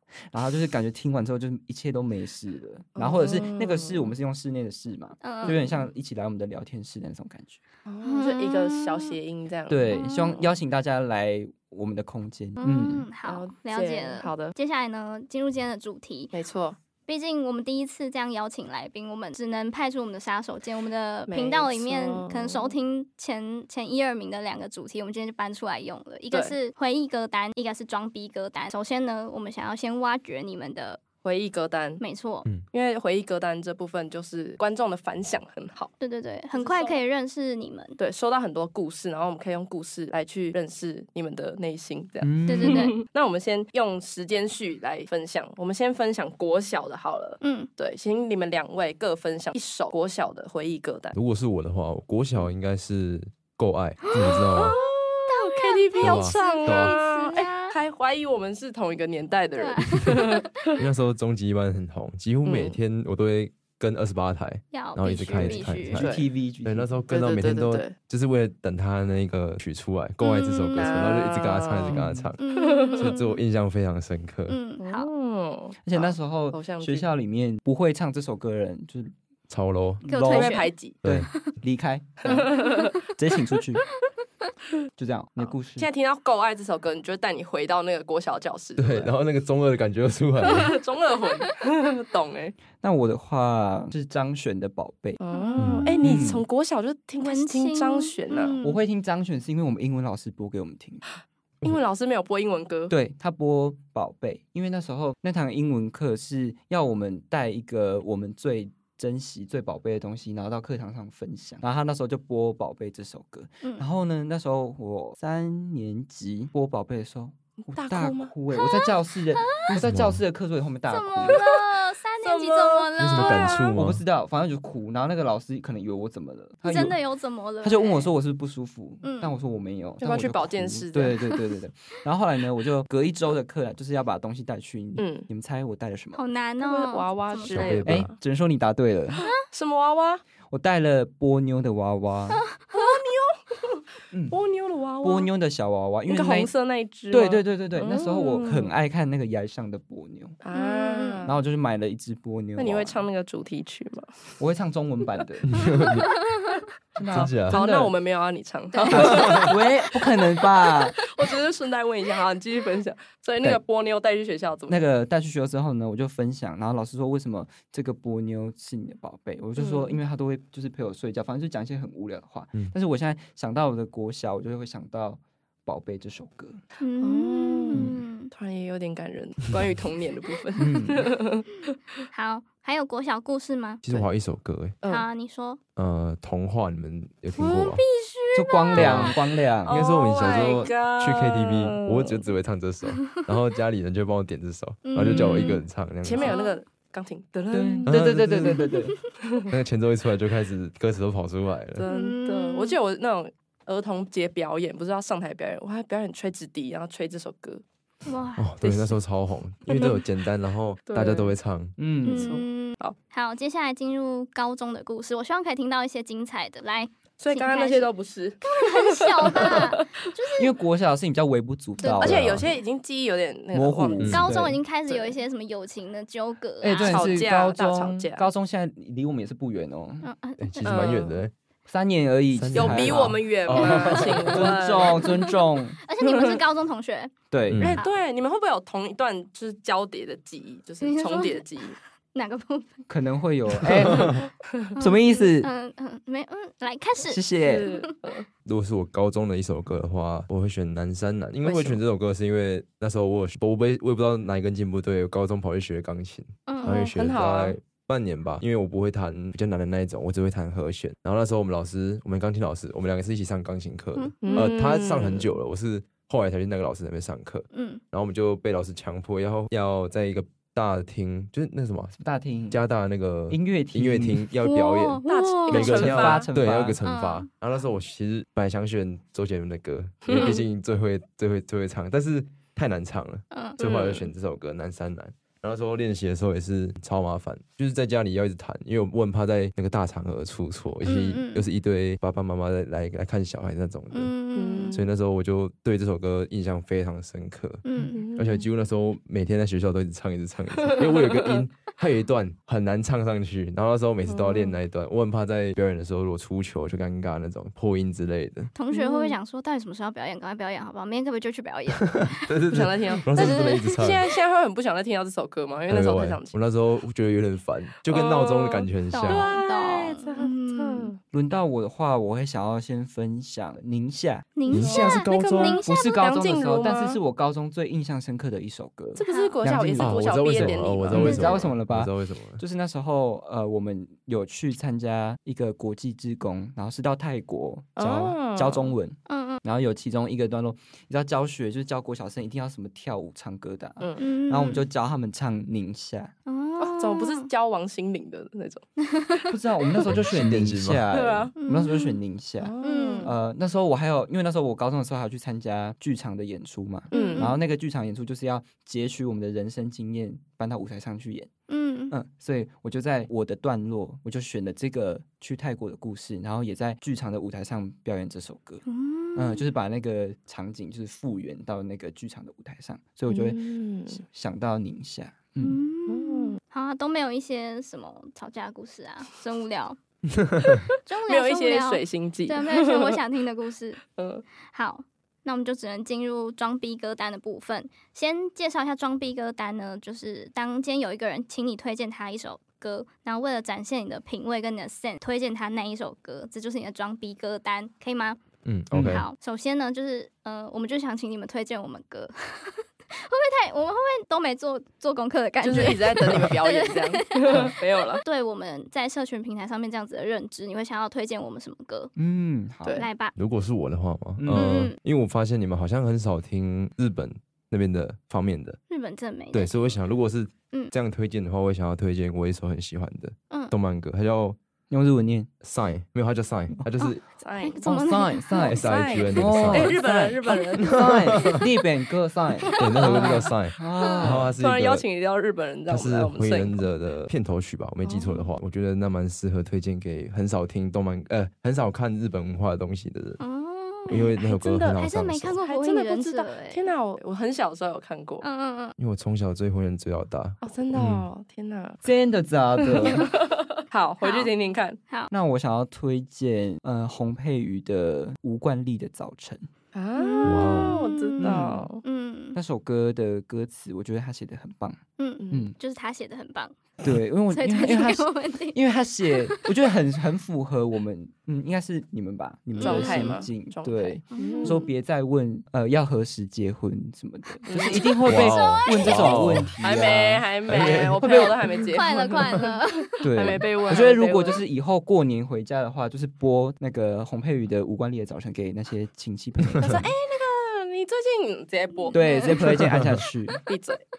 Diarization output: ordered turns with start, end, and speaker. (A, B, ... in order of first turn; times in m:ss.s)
0:00.3-0:07.6 A
0:03.0-0:04.1 B
0:05.2-0:05.6 C
0:07.9-0:09.9 B
0:08.0-0:09.2 C
0:09.7-0:13.1 A
0:09.9-0:10.5 C
0:12.6-0:16.3 C
0:13.2-0:14.5 B
0:16.3-0:16.8 B
0:17.1-0:31.0 C
0:21.3-0:22.7 B
0:31.2-0:32.0 B
0:32.0-0:32.5 C
0:32.7-0:35.9 B
0:36.0-0:38.0 C
0:36.5-0:37.0 B
0:38.0-0:51.2 B
0:42.2-0:43.0 A
0:42.5-0:43.0 C
0:47.4-0:47.7 C
0:51.2-0:54.8 D
0:54.2-1:00.7 B
0:55.3-0:57.8 C
0:56.0-0:57.0 D
0:59.6-1:00.3 C
1:00.8-1:12.4 D
1:02.4-1:02.8 B
1:04.7-1:06.1 C
1:05.3-1:06.9 A
1:06.0-1:06.3 B
1:07.1-1:08.0 B
1:10.2-1:11.1 C
1:10.8-1:13.2 B
1:11.9-1:12.3 A
1:12.4-1:13.4 C
1:12.9-1:14.6 D
1:14.5-1:15.1 C
1:14.8-1:17.1 B
1:15.8-1:19.1 A
1:19.5-1:20.0 D
1:20.0-1:23.8 A
1:20.0-1:20.7 C
1:20.2-1:21.0 B
1:21.0-1:21.3 D
1:22.3-1:23.0 B
1:22.6-1:22.9 C
1:25.0-1:25.9 A
1:25.4-1:29.1 B
1:28.8-1:30.8 D
1:30.5-1:32.5 B
1:32.8-1:35.2 A
1:35.2-1:38.6 B
1:35.3-1:36.0 C
1:35.6-1:36.0 D
1:36.0-1:36.5 A
1:37.2-1:38.8 C
1:38.6-1:41.0 A
1:41.6-1:42.9 B
1:42.9-2:01.4 A
1:53.6-1:53.9 C
1:57.7-1:58.3 B
1:58.5-1:59.8 C
1:59.8-2:00.2 D
2:00.9-2:03.8 C
2:02.2-2:03.6 B
2:03.0-2:04.0 D
2:03.8-2:07.0 A
2:06.6-2:08.1 C
2:07.6-2:16.2 A
2:09.0-2:09.4 C
2:10.0-2:11.3 B
2:15.0-2:15.3 B
2:16.1-2:17.8 C
2:16.6-2:18.1 B
2:17.5-2:18.1 D
2:17.8-2:19.2 A
2:19.3-2:20.2 B
2:20.5-2:22.4 A
2:22.7-2:25.3 B
2:24.1-2:24.4 A
2:25.0-2:26.5 A
2:26.1-2:28.7 B
2:27.1-2:30.4 A
2:30.4-2:31.4 B
2:30.6-2:31.3 C
2:31.3-2:33.1 A
2:32.6-2:34.1 B
2:34.4-2:35.6 A
2:35.5-2:36.1 D
2:35.9-2:36.4 C
2:37.0-2:38.0 A
2:37.1-2:37.6 D
2:37.2-2:44.8 B
2:38.7-2:39.4 C
2:38.9-2:41.0 A
2:44.7-2:56.6 A
2:49.6-2:50.0 B
2:56.8-2:58.3 C
2:57.0-3:01.6 B
2:57.7-2:58.0 A
3:00.6-3:01.1 A
3:02.1-3:04.0 C
3:03.8-3:04.8 D
3:04.8-3:05.6 C
3:05.8-3:07.8 D
3:07.3-3:09.2 C
3:08.3-3:09.8 A
3:08.7-3:09.2 D
3:09.6-3:12.2 B
3:09.7-3:16.4 D
3:14.8-3:15.6 C
3:15.2-3:17.9 B
3:16.2-3:16.6 C
3:17.5-3:18.9 A
3:17.9-3:18.8 D
3:19.5-3:21.8 D
3:21.8-3:27.6 B
3:21.9-3:22.8 C
3:28.1-3:28.9 C
3:28.4-3:31.8 D
3:28.6-3:28.9 B
3:29.7-3:30.0 B
3:30.9-3:31.4 B
3:31.8-3:32.4 A
3:32.0-3:37.9 C
3:32.0-3:33.0 B
3:37.2-3:39.8 B
3:38.4-3:40.5 C
3:40.4-3:42.5 A
3:41.8-3:42.2 C
3:42.0-3:44.3 B
3:42.0-3:42.5 D
3:43.5-3:44.6 A
3:44.0-3:44.3 D
3:44.1-3:47.1 C
3:44.9-3:45.2 B
3:46.6-3:50.1 A
3:46.7-3:48.3 B
3:50.0-3:50.7 C
3:50.4-3:51.3 D
3:50.6-3:51.2 B
3:51.7-3:53.2 A
3:52.3-3:54.5 D
3:52.5-3:55.3 B
3:53.6-3:54.2 C
3:54.0-3:55.8 A
3:54.9-3:55.3 C
3:55.9-3:58.0 C
3:56.0-3:56.4 B
3:57.3-3:57.7 A
3:57.5-3:57.8 D
3:57.6-4:01.8 B
4:00.8-4:01.5 C
4:02.1-4:02.8 C
4:02.9-4:05.5 A
4:03.8-4:04.1 D
4:04.8-4:07.8 C
4:07.0-4:07.7 A
4:07.4-4:08.3 B
4:08.5-4:32.0 D
4:11.4-4:11.8 B
4:16.5-4:16.9 C
4:16.6-4:17.6 B
4:24.0-4:24.5 C
4:24.2-4:25.3 B
4:27.5-4:27.8 C
4:32.0-4:32.6 A
4:32.5-4:54.1 D
4:33.3-4:34.3 A
4:34.4-4:35.9 C
4:35.1-4:36.3 B
4:35.7-4:36.8 A
4:36.8-4:37.3 C
4:40.1-4:40.4 B
4:43.3-4:43.6 C
4:43.6-4:44.1 B
4:50.8-4:51.5 C
4:53.9-4:54.8 C
4:54.3-4:54.9 B
4:54.7-4:57.6 D
4:57.6-4:58.0 C
4:57.9-4:58.5 B
4:58.2-5:08.5 D
5:00.6-5:01.4 B
5:04.1-5:04.6 B
5:08.6-5:12.3 C
5:08.7-5:09.2 B
5:12.2-5:14.0 D
5:12.5-5:16.4 B
5:13.1-5:13.8 C
5:15.7-5:19.3 D
5:17.9-5:21.0 B
5:18.9-5:20.9 C
5:21.1-5:46.1 A
5:24.4-5:26.0 C
5:24.5-5:25.6 D
5:25.8-5:27.0 B
5:29.0-5:31.2 B
5:29.0-5:29.4 C
5:29.8-5:32.4 D
5:31.0-5:31.5 C
5:37.8-5:38.8 B
5:39.1-5:39.4 C
5:44.0-5:44.7 C
5:46.3-5:47.3 C
5:46.6-5:50.0 B
5:49.3-6:01.3 A
5:49.9-5:50.9 D
5:50.9-5:51.3 B
5:51.4-5:52.0 C
5:52.4-5:53.1 B
5:52.6-5:53.1 C
5:56.9-5:57.3 B
5:56.9-5:57.4 C
6:01.5-6:02.0 C
6:01.9-6:08.6 A
6:08.7-6:09.5 C
6:09.2-6:15.6 A
6:13.1-6:14.0 B
6:15.4-6:19.8 C
6:15.9-6:16.4 B
6:20.8-6:23.8 C
6:21.1-6:23.0 B
6:24.0-6:24.2 B
6:24.5-6:38.2 C
6:38.4-6:39.1 D
6:38.8-6:47.5 C
6:45.4-6:48.0 B
6:48.0-6:51.9 C
6:52.0-6:52.8 A
6:52.8-6:53.2 C
6:53.2-6:58.6 D
6:54.2-6:54.6 A
6:54.4-6:54.8 C
6:58.7-6:59.8 C
6:59.3-7:04.4 D
7:04.7-7:05.3 A
7:05.4-7:07.0 D
7:06.8-7:08.6 C
7:07.2-7:07.8 B
7:07.7-7:08.6 A
7:08.4-7:11.4 B
7:08.4-7:09.8 D
7:09.1-7:14.4 A
7:10.6-7:11.2 D
7:12.4-7:13.3 B
7:12.6-7:14.9 D
7:13.8-7:14.2 C
7:14.4-7:16.6 B
7:15.7-7:23.2 D
7:17.9-7:18.2 B
7:23.2-7:24.1 C
7:23.9-7:25.4 D
7:24.2-7:24.8 B
7:24.8-7:26.7 C
7:25.3-7:28.2 B
7:28.2-7:28.8 C
7:28.8-7:31.1 D
7:30.4-7:31.8 B
7:31.8-7:33.2 A
7:32.6-7:34.8 B
7:34.0-7:34.3 C
7:35.1-7:39.5 A
7:39.7-7:41.8 B
7:40.0-7:42.4 C
7:40.2-7:40.8 D
7:41.2-7:41.7 A
7:42.4-7:44.8 A
7:45.0-7:46.5 C
7:45.3-7:45.6 A
7:46.8-8:01.5 A
7:47.3-7:48.6 C
7:49.2-7:49.5 C
7:52.5-7:53.2 C
7:52.6-7:54.6 B
7:54.1-7:54.7 C
7:57.5-7:58.0 B
7:57.5-7:59.2 C
7:58.0-7:59.6 D
7:59.6-8:02.5 B
8:00.5-8:01.0 D
8:01.5-8:03.0 C
8:03.0-8:09.8 A
8:03.1-8:04.4 B
8:09.6-8:12.6 B
8:11.9-8:12.6 C
8:11.9-8:13.4 A
8:13.5-8:13.8 B